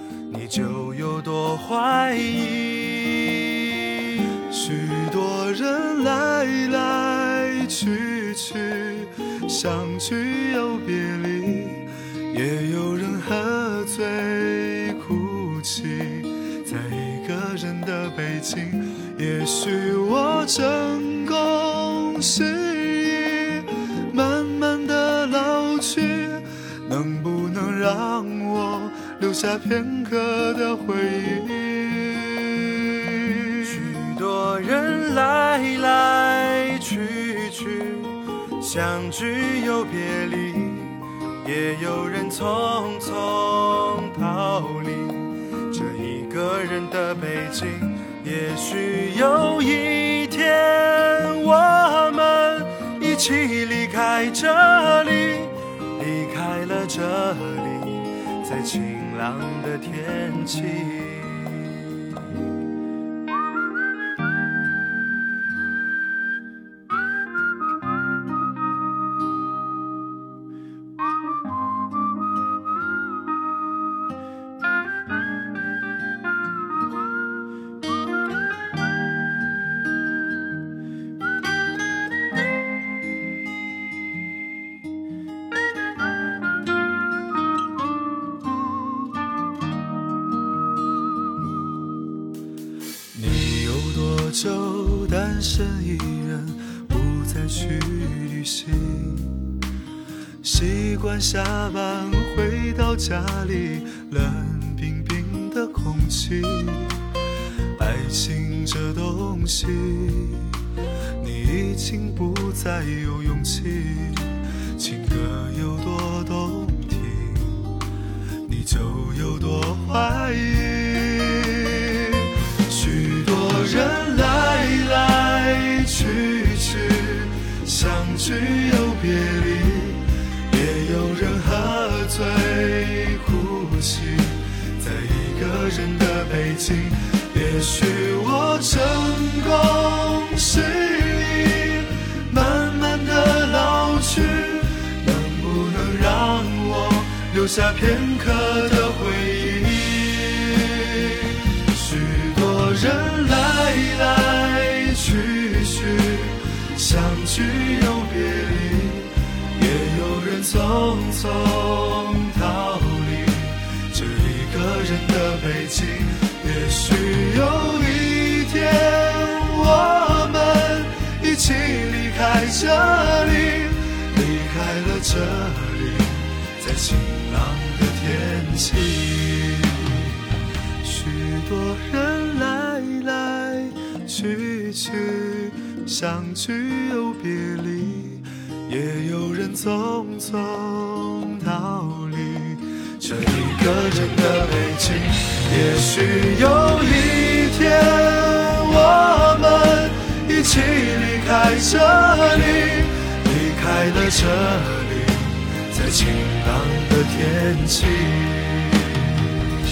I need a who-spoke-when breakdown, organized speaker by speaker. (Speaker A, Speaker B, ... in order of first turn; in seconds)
Speaker A: 0.3-61.9, 93.1-99.5, 100.4-107.1, 107.8-110.6, 111.2-117.8, 118.4-180.3, 180.8-209.1